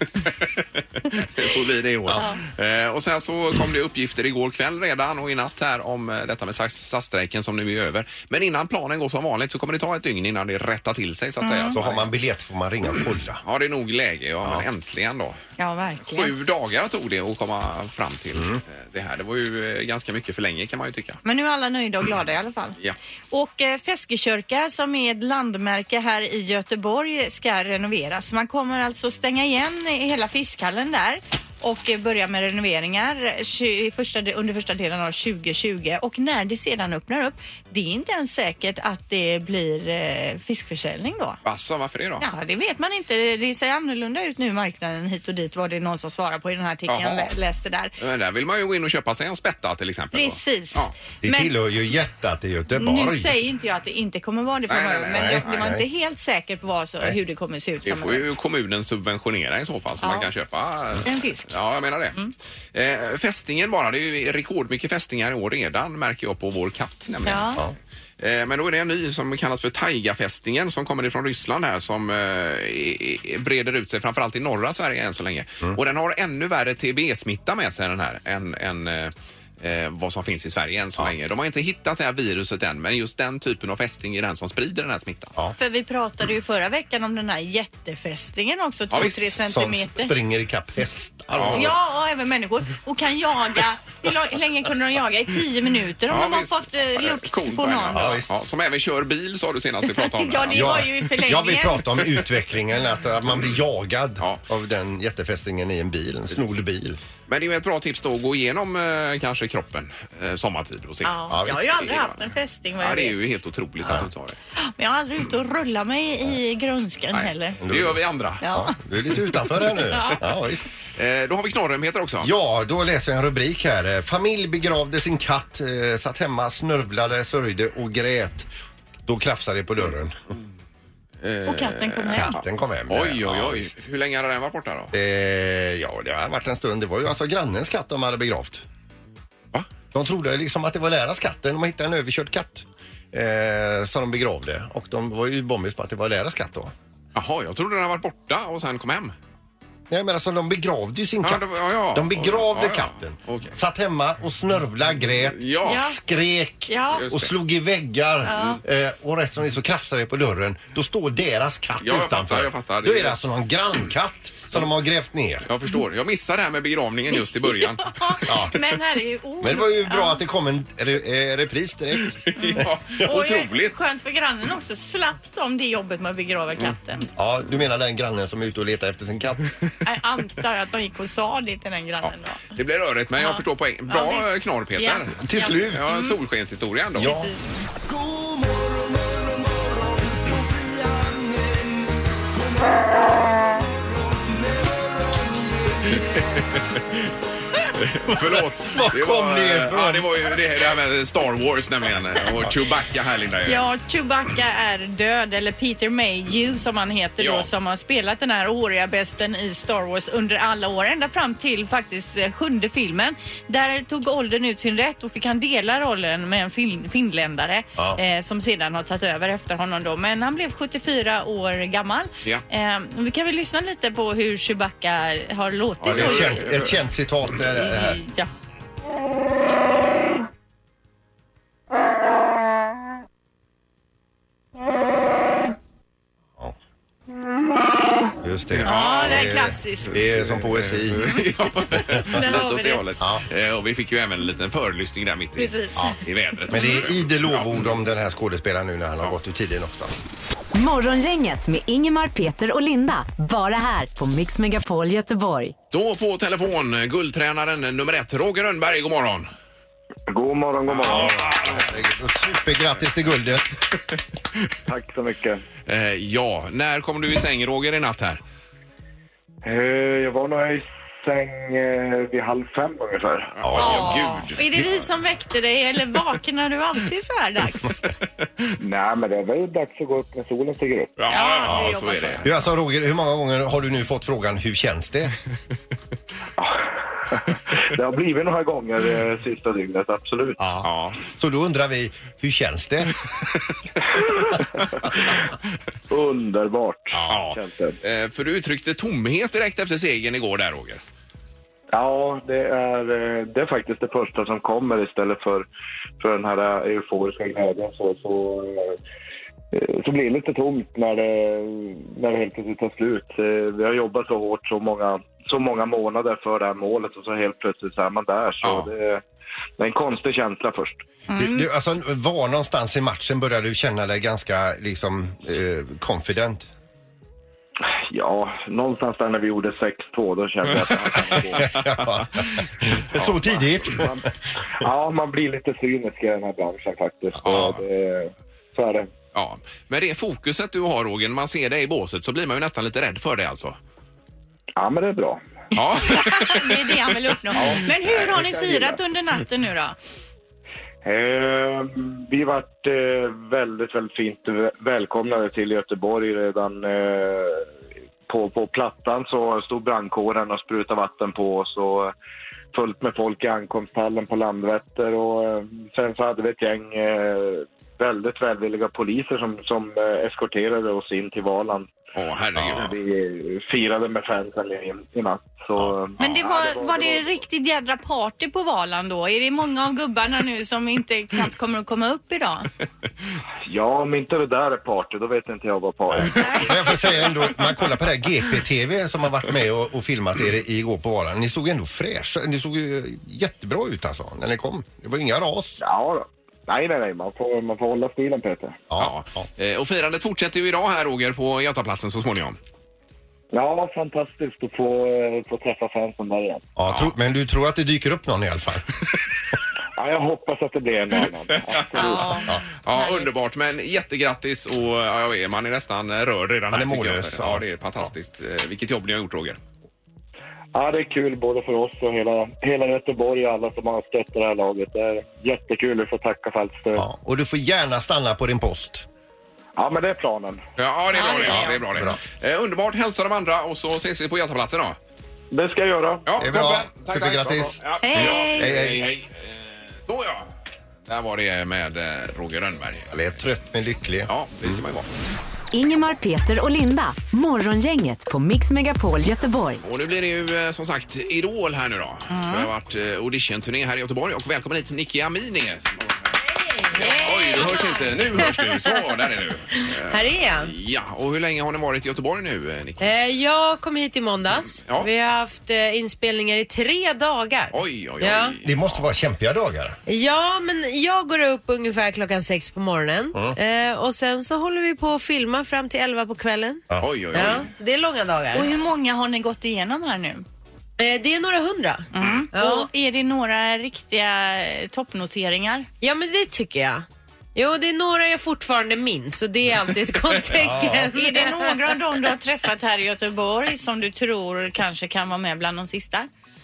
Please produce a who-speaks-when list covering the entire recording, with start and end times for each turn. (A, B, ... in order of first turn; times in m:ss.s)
0:00.2-0:12.1 A
0:02.1-0:02.4 B
0:11.4-0:11.8 B
0:11.7-0:13.4 C
0:13.4-0:15.4 A
0:15.6-0:16.3 B
0:16.1-0:21.2 A
0:21.2-0:22.8 B
0:23.3-0:41.4 B
0:41.4-0:42.3 A
0:42.2-0:47.9 B
0:46.9-0:47.3 A
0:48.0-0:50.9 A
0:50.1-0:51.5 B
0:51.2-0:53.3 C
0:52.8-0:58.2 B
0:54.7-0:55.8 A
0:55.1-0:55.8 C
0:57.8-1:02.2 A
1:00.0-1:00.3 B
1:01.0-1:01.5 B
1:02.7-1:07.6 A
1:07.2-1:07.6 B
1:08.2-1:25.3 A
1:25.6-1:30.1 B
1:28.9-1:29.2 A
1:29.4-1:31.7 C
1:31.3-1:31.7 A
1:31.5-1:38.2 B
1:36.1-1:40.9 A
1:37.9-1:38.3 C
1:39.9-1:42.0 B
1:40.5-1:47.0 C
1:47.3-1:52.2 A
1:51.0-1:53.2 B
1:51.3-1:51.7 C
1:52.8-1:54.4 A
1:54.6-1:57.6 B
1:57.1-1:58.4 A
1:57.6-2:00.7 C
1:58.4-1:58.7 B
1:59.9-2:00.2 B
2:01.0-2:02.3 A
2:02.2-2:08.5 C
2:09.0-2:10.2 C
2:11.2-2:14.9 A
2:11.4-2:12.3 B
2:12.1-2:13.8 C
2:14.9-2:18.6 C
2:19.9-2:26.7 C
2:27.1-2:29.1 A
2:29.9-2:45.5 C
2:31.2-2:33.5 A
2:35.2-2:35.9 A
2:35.6-2:36.0 B
2:36.7-2:37.0 B
2:36.9-2:37.3 A
2:38.3-2:38.6 B
2:41.8-2:43.2 A
2:45.5-2:48.2 A
2:47.4-2:50.2 B
2:48.2-2:48.6 C
2:49.4-2:52.3 C
2:52.2-2:53.8 A
2:52.4-2:57.1 B
2:57.2-2:59.5 C
2:59.8-3:02.5 B
3:02.0-3:07.2 A
3:03.2-3:06.1 B
3:05.2-3:05.8 C
3:06.9-3:07.3 C
3:07.0-3:07.6 B
3:16.0-3:17.0 A
3:17.7-3:23.7 A
3:18.4-3:20.4 C
3:23.4-3:46.5 B
3:27.2-3:27.5 A
3:45.8-3:46.8 A
3:45.8-3:48.0 C
3:47.5-3:48.3 B
3:58.2-4:01.2 C
3:58.5-4:07.7 A
3:58.6-3:59.9 B
4:02.0-4:02.8 B
4:05.4-4:06.0 B
4:06.5-4:09.9 C
4:10.5-4:15.5 D
4:15.7-4:19.3 A
4:20.1-4:21.4 E
4:20.8-4:21.6 A
4:20.8-4:23.5 C
4:24.7-4:25.4 E
4:25.7-4:28.2 A
4:29.4-4:33.4 E
4:33.4-4:34.8 A
4:33.4-4:34.0 C
4:33.6-4:37.8 B
4:38.6-4:40.9 E
4:41.0-4:42.4 A
4:41.1-4:42.3 B
4:41.4-4:45.1 C
4:46.4-4:50.4 E
4:50.4-4:53.0 C
4:50.6-4:51.0 A
4:55.9-4:57.8 E
4:57.1-5:00.8 A
5:01.7-5:05.5 E
5:06.0-5:08.8 E
5:09.5-5:19.0 E
5:18.4-5:18.7 A
5:19.6-5:20.8 E
5:21.1-5:21.5 B
5:21.2-5:26.5 C
5:27.9-5:31.6 E
5:31.4-5:33.9 C
5:33.1-5:38.9 E
5:37.2-5:37.6 A
5:37.3-5:37.5 C
5:39.1-5:43.6 A
5:44.6-5:45.2 E
5:45.5-5:46.8 A
5:45.9-5:49.8 B
5:47.3-5:48.8 E
5:50.8-5:57.5 E
5:58.1-6:01.9 E
6:02.5-6:11.7 E
6:11.9-6:12.7 A
6:12.4-6:17.2 E
6:16.0-6:22.5 B
6:23.5-6:26.5 E
6:25.9-6:35.6 C
6:26.2-6:26.5 B
6:35.6-6:38.6 E
6:38.7-6:39.3 C
6:38.8-6:42.4 A
6:43.3-6:46.4 E
6:46.6-6:48.7 C
6:46.7-6:46.9 A
6:49.8-6:52.2 E
6:51.5-6:52.0 A
6:51.8-6:53.1 B
6:52.6-6:59.4 A
6:56.5-6:57.4 C
7:00.5-7:06.8 E
7:06.8-7:08.8 C
7:09.6-7:10.4 E
7:10.6-7:14.8 A
7:10.9-7:11.7 B
7:11.3-7:12.0 C
7:15.3-7:16.1 E
7:16.0-7:20.3 A
7:16.2-7:18.9 C
7:17.8-7:18.5 B
7:20.9-7:22.9 A
7:22.9-7:24.1 C
7:24.1-7:24.9 A
7:25.5-7:29.6 D
7:29.6-7:35.8 A
7:32.1-7:32.5 B
7:36.6-7:38.2 F
7:36.7-7:42.9 A
7:36.8-7:37.6 B
7:39.6-7:40.5 F
7:42.8-7:48.3 F
7:47.5-7:48.8 A
7:48.4-7:49.8 C
7:49.9-7:58.5 F
7:56.7-7:57.4 C
7:56.8-7:57.5 A
7:58.3-8:00.2 B
8:00.8-8:02.7 F
8:01.9-8:05.7 B
8:02.0-8:02.3 A
8:05.8-8:11.5 F
8:10.3-8:10.9 C
8:10.9-8:16.1 B